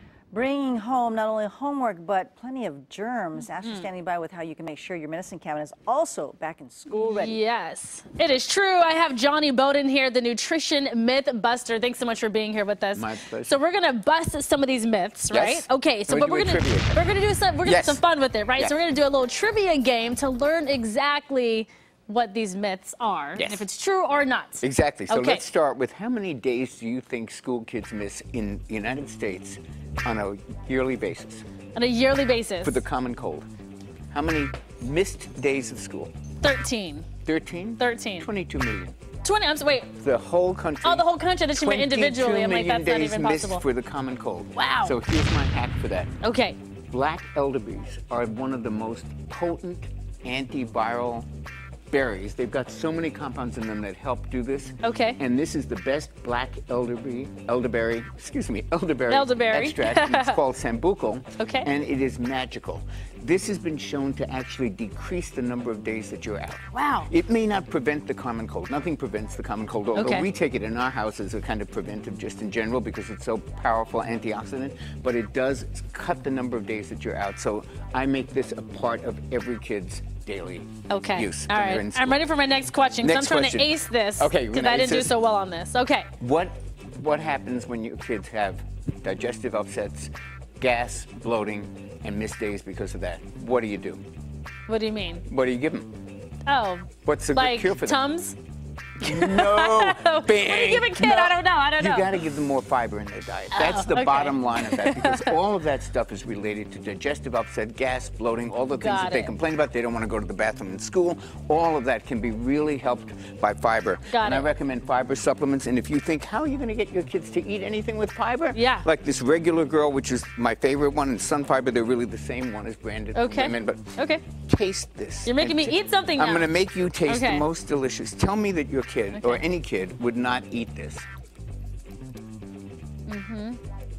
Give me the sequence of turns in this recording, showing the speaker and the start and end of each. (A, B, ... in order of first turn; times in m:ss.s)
0:00.3-0:07.4 A
0:06.9-0:25.4 B
0:12.9-0:13.6 C
0:15.3-0:17.0 C
0:17.6-0:18.0 C
0:23.4-0:23.6 C
0:24.6-0:31.4 C
0:31.7-0:32.8 B
0:32.6-0:33.5 C
0:34.1-0:36.1 C
0:36.4-0:37.1 B
0:37.2-0:39.0 C
0:37.8-0:38.3 B
0:39.2-0:40.0 B
0:40.0-0:46.1 C
0:40.8-0:43.6 B
0:44.5-0:45.0 B
0:46.2-0:46.6 B
0:46.9-0:51.2 C
0:51.9-1:22.2 C
0:54.8-0:55.2 B
0:59.1-1:00.4 B
1:01.4-1:01.7 B
1:06.7-1:07.1 B
1:10.0-1:10.3 B
1:20.9-1:26.1 B
1:23.0-1:25.1 C
1:26.2-1:34.0 C
1:34.7-1:35.2 B
1:35.3-1:35.9 C
1:36.4-1:38.4 B
1:37.0-1:38.0 C
1:39.0-1:42.3 B
1:39.0-2:11.0 C
1:43.5-1:45.4 B
1:48.8-1:49.3 B
1:54.1-1:54.4 B
1:58.5-1:58.9 B
2:03.1-2:04.2 B
2:05.2-2:06.5 B
2:07.0-2:07.5 B
2:09.1-2:09.4 B
2:13.1-2:13.6 B